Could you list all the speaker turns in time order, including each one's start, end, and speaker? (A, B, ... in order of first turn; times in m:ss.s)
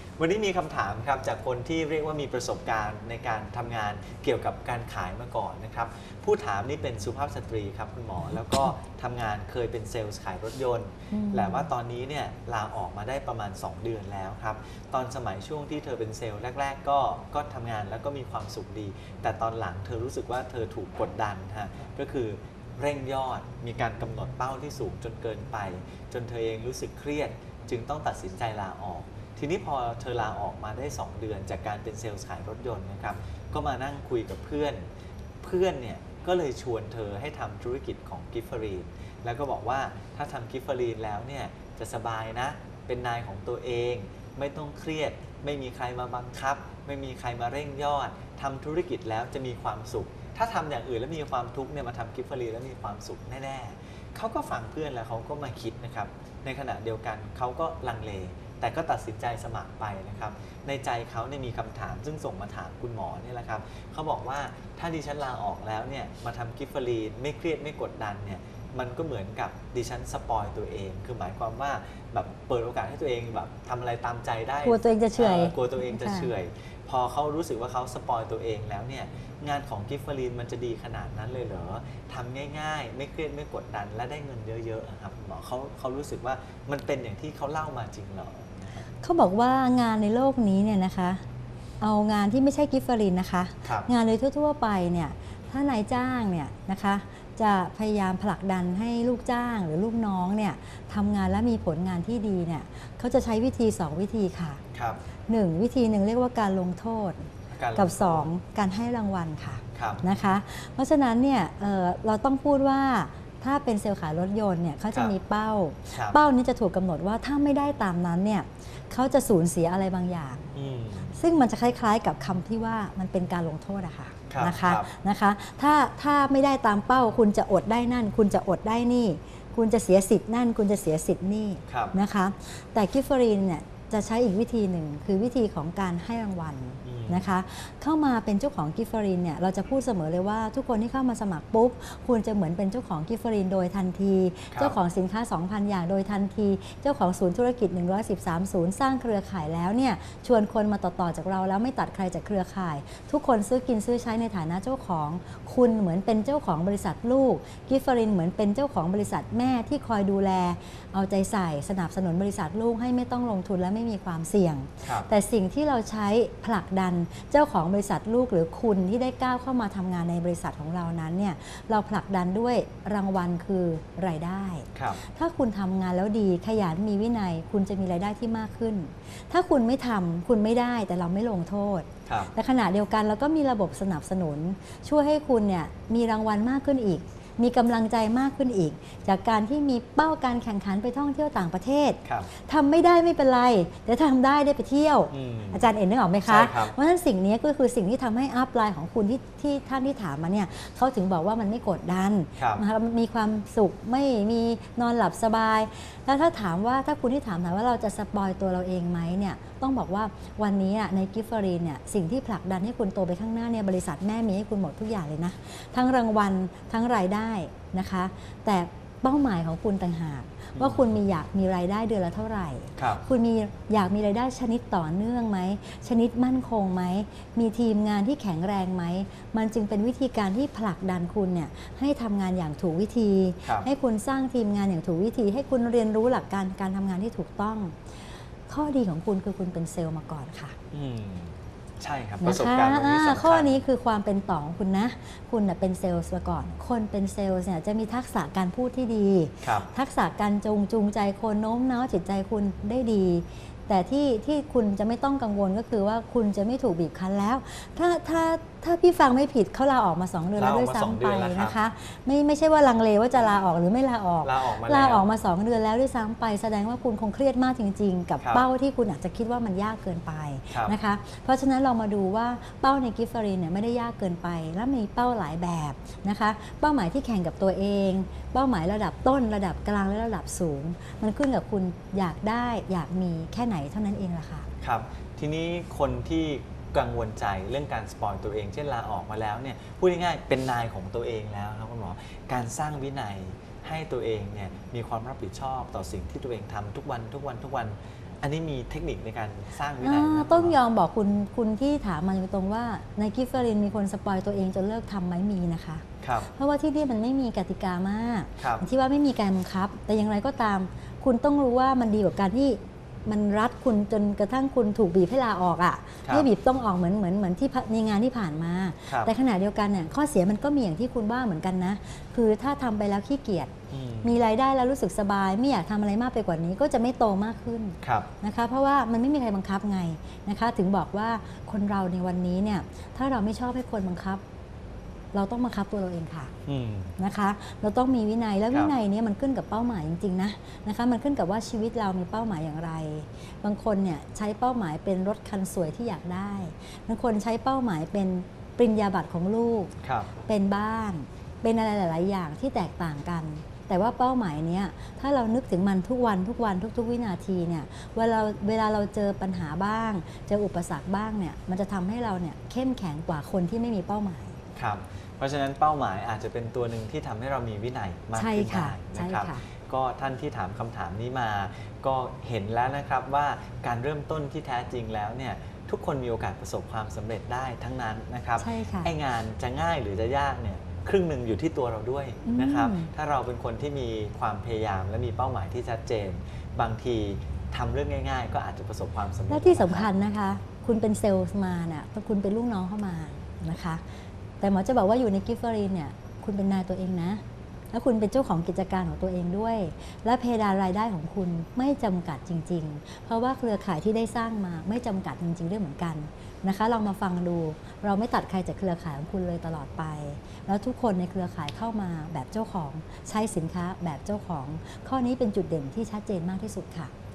0:00.2-0:34.9 A
0:11.1-0:11.7 B
0:35.4-1:28.8 A
1:14.6-1:16.3 B
1:29.0-1:31.2 B
1:31.8-1:44.6 B
1:33.6-1:33.9 A
1:44.7-1:45.0 A
1:45.3-2:00.5 B
1:47.5-1:48.3 A
1:49.8-1:50.0 A
1:55.9-1:56.2 A
2:00.5-2:01.2 A
2:01.2-4:00.6 B
2:04.3-2:04.9 A
2:11.7-2:12.0 A
2:16.8-2:17.3 A
2:24.5-2:24.8 A
2:44.8-2:45.1 A
2:54.7-2:55.0 A
3:02.1-3:02.3 A
3:15.1-3:15.7 A
3:16.2-3:16.8 A
3:22.4-3:22.6 A
3:40.6-3:40.9 A
3:42.8-3:43.0 A
4:00.7-4:03.6 A
4:02.2-4:44.5 B
4:09.4-4:09.7 A
4:20.4-4:21.6 A
4:24.2-4:25.1 A
4:28.2-4:28.5 A
4:30.5-4:30.8 A
4:44.6-5:00.6 A
4:59.8-5:23.5 B
5:06.0-5:06.3 A
5:08.4-5:08.6 A
5:18.9-5:19.1 A
5:23.7-5:24.2 A
5:24.0-5:34.2 B
5:27.8-5:28.1 A
5:35.1-5:36.3 B
5:36.5-5:37.0 A
5:37.0-5:49.7 B
5:49.8-5:50.1 A
5:50.3-6:04.4 B
6:04.6-6:29.9 A
6:08.2-6:09.4 B
6:18.4-6:18.9 B
6:22.2-6:22.9 B
6:29.3-6:33.8 B
6:34.4-6:56.9 B